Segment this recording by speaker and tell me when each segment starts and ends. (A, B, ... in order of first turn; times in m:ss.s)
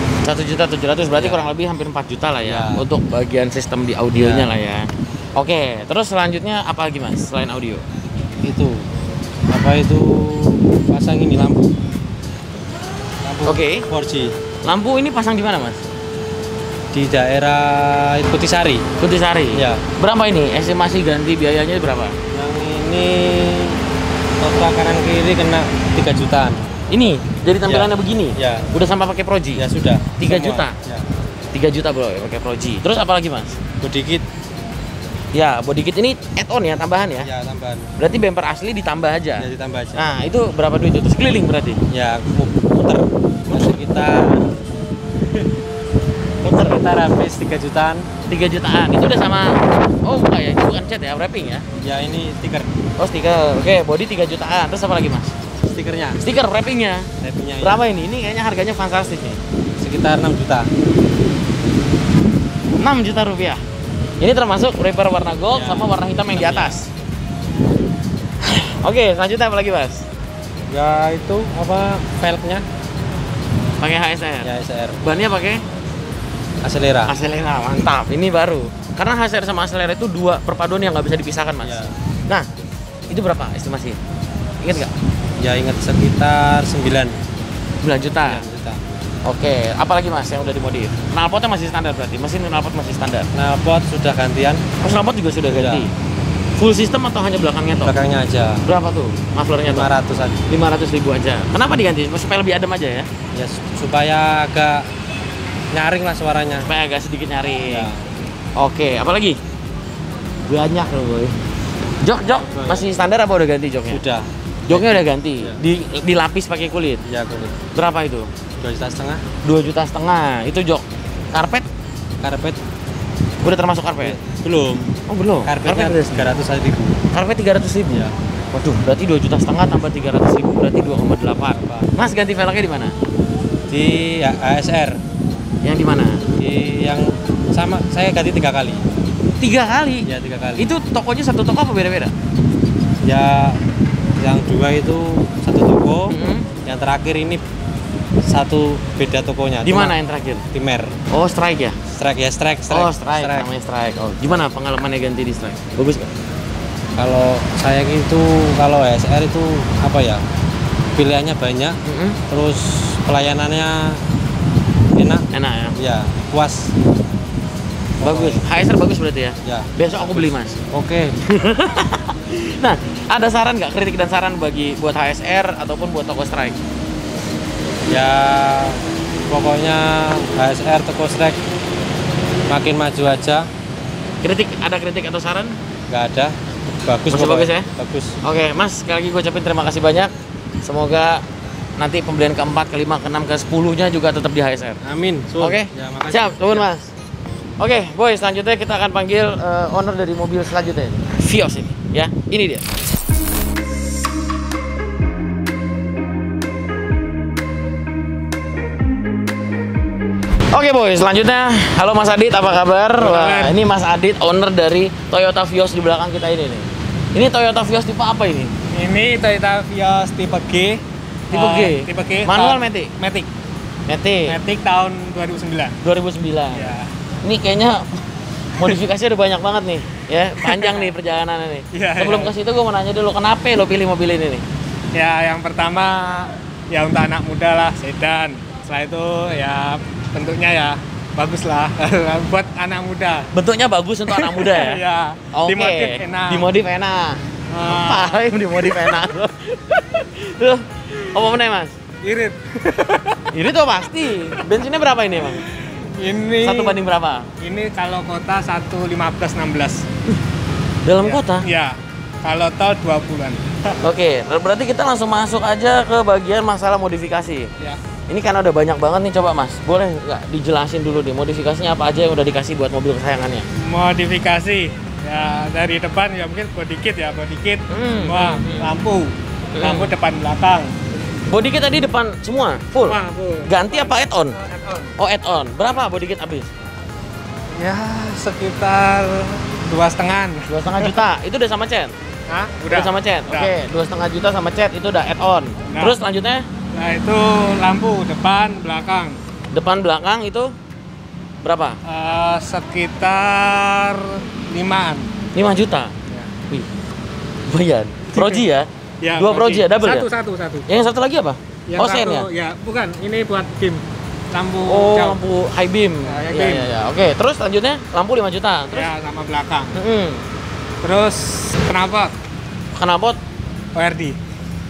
0:00.2-0:07.8 A
0:01.1-0:01.4 B
0:02.4-0:02.8 B
0:04.1-0:04.5 B
0:08.4-0:08.9 B
0:09.5-0:11.7 B
0:13.2-0:14.3 B
0:13.4-0:13.9 A
0:14.6-0:15.8 A
0:16.9-0:18.8 B
0:19.0-0:22.2 A
0:19.5-0:19.8 B
0:22.3-0:23.8 B
0:24.4-0:26.6 B
0:26.9-0:29.6 A
0:27.6-0:28.7 B
0:29.6-0:31.0 B
0:30.2-0:30.7 A
0:31.5-0:33.6 A
0:33.8-0:34.2 B
0:35.3-0:37.3 A
0:37.2-0:37.9 B
0:38.0-0:41.8 A
0:39.4-0:40.0 B
0:41.9-0:44.5 B
0:46.4-0:46.8 A
0:46.4-0:48.1 B
0:48.2-0:51.6 A
0:51.8-0:52.7 B
0:53.0-0:55.3 A
0:55.6-0:56.2 B
0:56.2-0:59.4 A
0:57.2-0:57.8 B
0:59.8-1:00.7 B
1:02.8-1:03.6 A
1:04.2-1:06.9 A
1:05.5-1:06.7 B
1:08.4-1:10.0 A
1:10.7-1:12.6 B
1:13.8-1:14.5 A
1:14.4-1:15.0 B
1:15.0-1:15.6 A
1:16.6-1:17.1 B
1:17.0-1:22.5 A
1:21.6-1:21.9 B
1:23.1-1:24.0 A
1:24.6-1:24.9 A
1:25.4-1:27.1 B
1:27.8-1:28.4 A
1:28.2-1:28.8 B
1:29.2-1:33.3 A
1:33.3-1:34.6 B
1:34.8-1:35.9 A
1:35.5-1:35.9 B
1:36.6-1:37.9 A
1:37.8-1:38.6 B
1:38.6-1:39.9 A
1:39.7-1:40.4 B
1:40.5-1:43.1 A
1:43.3-1:44.8 B
1:45.7-1:46.7 B
1:46.6-1:47.9 A
1:47.7-1:48.0 B
1:48.6-1:49.4 A
1:50.5-1:51.3 A
1:52.0-1:54.0 A
1:52.4-1:52.9 B
1:53.9-1:55.6 B
1:54.7-1:57.0 A
1:57.0-1:57.6 B
1:57.7-1:58.3 A
1:58.6-1:59.2 B
1:59.4-2:01.6 A
2:02.2-2:02.6 B
2:03.4-2:04.2 A
2:04.0-2:04.9 B
2:05.1-2:06.3 A
2:05.4-2:07.0 B
2:07.1-2:12.9 A
2:11.6-2:11.9 B
2:13.7-2:15.0 B
2:15.6-2:16.2 A
2:16.4-2:18.8 B
2:19.4-2:22.1 A
2:20.0-2:20.7 B
2:23.0-2:23.6 B
2:24.2-2:26.1 B
2:26.1-2:26.5 A
2:26.6-2:27.4 B
2:28.2-2:29.9 B
2:29.6-2:30.4 A
2:30.5-2:30.9 B
2:31.1-2:31.8 A
2:31.9-2:33.5 B
2:32.7-2:36.1 A
2:37.0-2:40.2 B
2:40.9-2:44.0 B
2:41.8-2:42.2 A
2:44.9-2:46.7 B
2:45.3-2:45.8 A
2:48.0-2:48.4 B
2:48.0-2:50.6 A
2:49.4-2:51.2 B
2:51.2-2:56.6 A
2:57.9-3:01.4 B
3:02.5-3:03.5 B
3:04.2-3:05.6 A
3:05.9-3:08.1 B
3:07.1-3:07.7 A
3:08.2-3:10.1 A
3:10.6-3:11.2 A
3:11.8-3:14.8 A
3:14.8-3:16.7 B
3:15.4-3:16.8 A
3:17.6-3:22.6 A
3:30.5-3:38.5 A
3:33.0-3:33.5 C
3:38.7-3:43.3 C
3:41.3-3:42.9 A
3:43.9-3:44.4 A
3:44.3-3:45.8 C
3:45.8-3:46.7 A
3:46.5-3:46.9 C
3:47.2-3:48.0 A
3:48.6-3:54.4 A
3:50.4-3:50.9 C
3:51.7-3:52.3 C
3:54.9-4:03.3 C
4:03.3-4:04.8 A
4:04.1-4:06.5 C
4:05.3-4:11.7 A
4:07.5-4:08.3 C
4:12.0-4:13.2 C
4:13.3-4:15.4 A
4:15.4-4:16.8 C
4:16.4-4:17.3 A
4:17.4-4:19.8 C
4:20.8-4:21.4 A
4:21.0-4:23.4 C
4:23.8-4:27.5 A
4:28.1-4:33.4 A
4:33.6-4:40.7 C
4:37.7-4:38.7 A
4:39.5-4:39.9 A
4:41.3-4:44.4 A
4:42.9-4:44.9 C
4:45.0-4:46.5 A
4:47.5-4:50.9 C
4:50.5-4:51.9 A
4:52.3-4:53.5 C
4:52.7-4:56.5 A
4:55.6-4:56.0 C
4:56.7-4:59.2 C
4:59.5-5:00.5 A
5:01.4-5:01.8 A
5:01.8-5:05.1 C
5:05.3-5:05.9 A
5:07.5-5:10.0 A
5:08.1-5:08.4 C
5:09.0-5:10.6 C
5:10.7-5:12.3 A
5:11.7-5:15.2 C
5:14.6-5:18.9 A
5:16.1-5:16.7 C
5:18.7-5:19.8 C
5:19.7-5:20.2 A
5:20.8-5:22.1 C
5:22.7-5:23.2 A
5:23.7-5:24.2 C